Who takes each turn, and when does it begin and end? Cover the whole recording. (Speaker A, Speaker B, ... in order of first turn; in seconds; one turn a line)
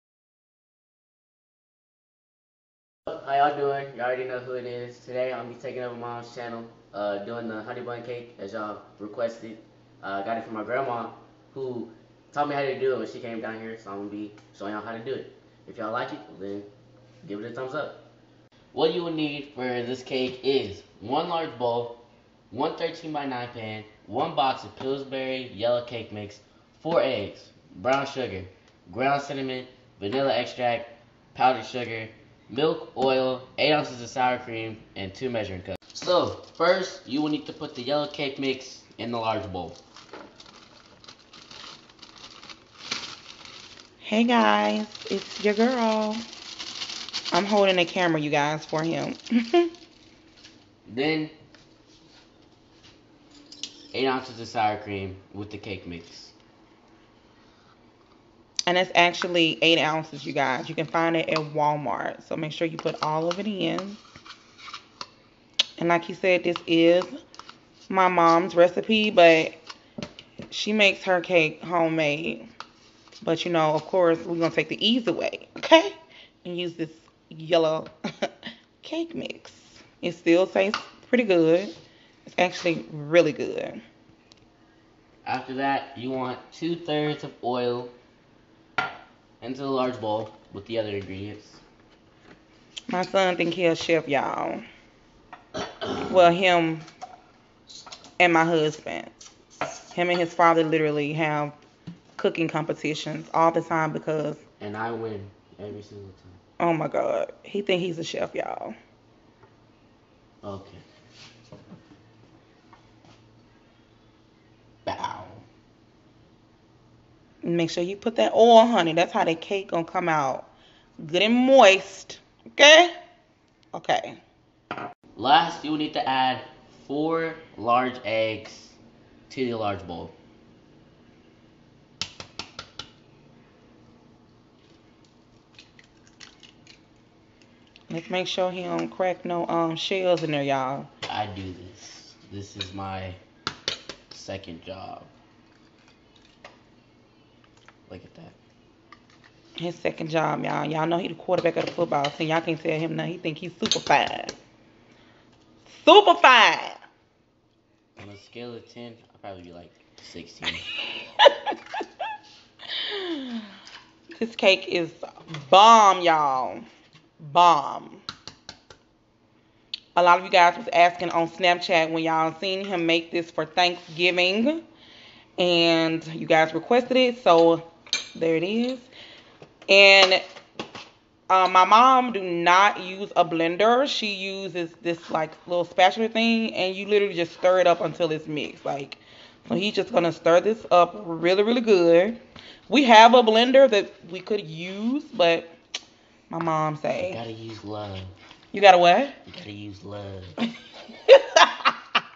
Speaker A: 3.1-16.7
Speaker A: 17.2-18.1
Speaker A: 18.7-39.8
Speaker B: 44.0-46.2
Speaker B: 47.3-49.7
Speaker A: 50.9-51.3
Speaker A: 53.9-56.3
Speaker B: 58.7-64.0
Speaker B: 65.8-67.1
Speaker B: 67.9-69.6
Speaker B: 70.5-72.5
Speaker B: 73.2-78.3
Speaker B: 78.8-81.7
Speaker B: 82.2-83.8
Speaker A: 85.2-87.9
Speaker A: 89.4-91.6
Speaker B: 92.9-94.6
Speaker B: 96.0-96.9
Speaker B: 98.2-99.1
Speaker B: 99.9-101.5
Speaker B: 102.2-104.4
Speaker A: 104.6-106.4
Speaker B: 106.6-108.8
Speaker A: 110.4-110.8
Speaker A: 114.9-115.4
Speaker B: 117.4-120.5
Speaker B: 121.0-122.9
Speaker B: 123.7-124.2
Speaker A: 125.2-128.8
Speaker A: 129.3-130.1
Speaker B: 137.9-140.9
Speaker A: 141.1-143.2
Speaker A: 144.1-145.1
Speaker A: 147.9-148.4
Speaker B: 149.6-154.3
Speaker B: 155.7-156.8
Speaker A: 158.0-160.7
Speaker B: 162.8-163.4
Speaker B: 164.2-166.7
Speaker B: 167.2-168.1
Speaker B: 170.0-174.6
Speaker B: 175.4-178.9
Speaker B: 179.7-180.2
Speaker B: 181.3-192.2
Speaker B: 192.7-195.5
Speaker B: 196.3-197.2
Speaker A: 197.0-198.2
Speaker B: 198.5-199.2
Speaker A: 199.3-200.4
Speaker B: 201.1-201.8